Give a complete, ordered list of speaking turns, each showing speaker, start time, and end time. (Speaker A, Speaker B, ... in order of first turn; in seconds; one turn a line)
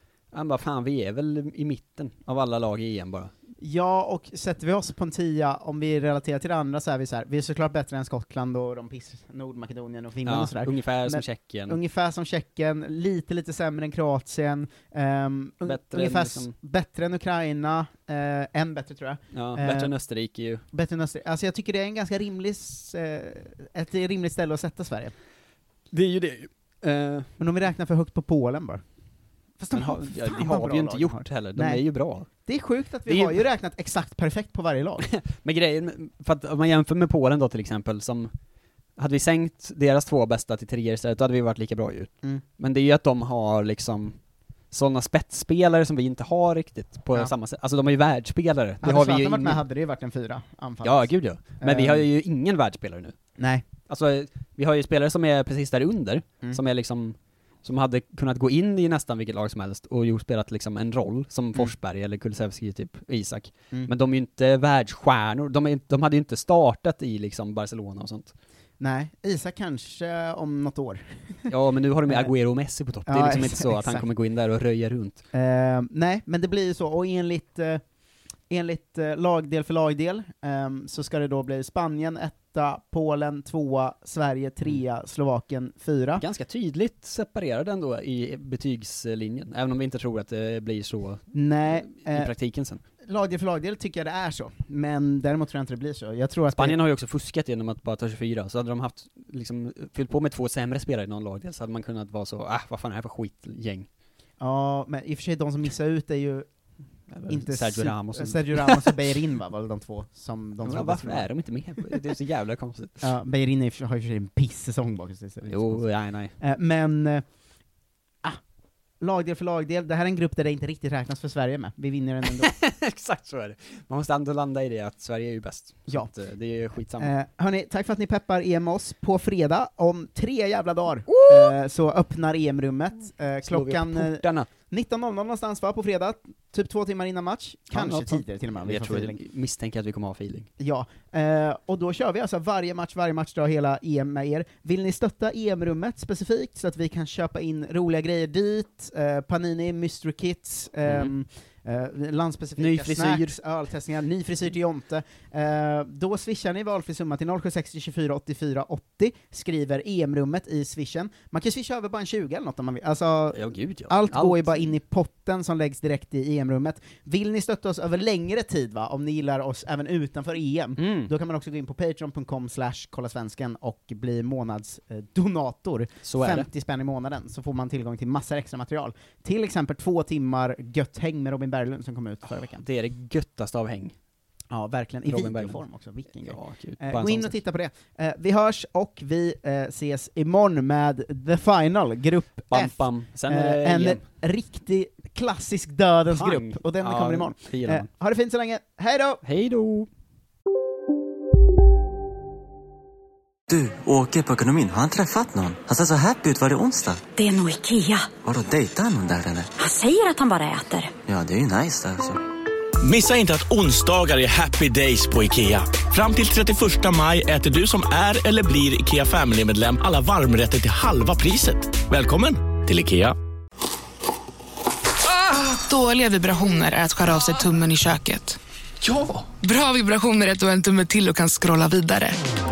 Speaker A: 0.3-3.3
Speaker B: 3.6-19.9
Speaker A: 10.3-11.8
Speaker A: 15.6-16.6
Speaker A: 19.3-20.6
Speaker B: 20.7-25.1
Speaker A: 25.9-27.3
Speaker B: 27.4-28.8
Speaker B: 29.6-35.1
Speaker A: 29.7-32.3
Speaker A: 33.1-33.4
Speaker A: 35.1-38.3
Speaker A: 39.0-44.2
Speaker A: 44.7-49.6
Speaker B: 48.8-52.1
Speaker A: 50.8-53.2
Speaker B: 53.4-53.6
Speaker A: 53.9-68.3
Speaker B: 68.8-71.5
Speaker A: 71.5-75.2
Speaker B: 73.1-74.1
Speaker B: 75.3-77.8
Speaker B: 78.5-86.2
Speaker A: 86.2-92.8
Speaker B: 91.3-92.3
Speaker B: 93.0-96.8
Speaker A: 96.5-103.9
Speaker B: 104.4-106.5
Speaker A: 107.1-109.0
Speaker B: 107.3-111.3
Speaker A: 110.6-113.0
Speaker B: 113.0-115.9
Speaker A: 115.4-116.3
Speaker B: 116.4-117.2
Speaker B: 119.0-122.5
Speaker A: 122.3-127.1
Speaker B: 127.0-139.2
Speaker A: 131.1-131.6
Speaker A: 133.4-134.5
Speaker A: 137.7-140.5
Speaker B: 140.6-182.6
Speaker A: 150.9-151.1
Speaker A: 152.6-153.4
Speaker A: 163.3-164.7
Speaker A: 170.8-171.1
Speaker A: 176.0-176.5
Speaker A: 182.5-183.9
Speaker B: 184.5-199.2
Speaker A: 185.1-185.6
Speaker A: 186.2-187.4
Speaker A: 192.5-194.1
Speaker A: 196.1-197.9
Speaker A: 199.2-199.9
Speaker C: 203.5-207.0
Speaker D: 207.2-208.1
Speaker C: 208.2-209.5
Speaker D: 209.6-210.9
Speaker C: 211.1-212.2
Speaker E: 212.8-223.2
Speaker F: 225.6-228.4
Speaker E: 228.8-229.2
Speaker F: 229.3-232.2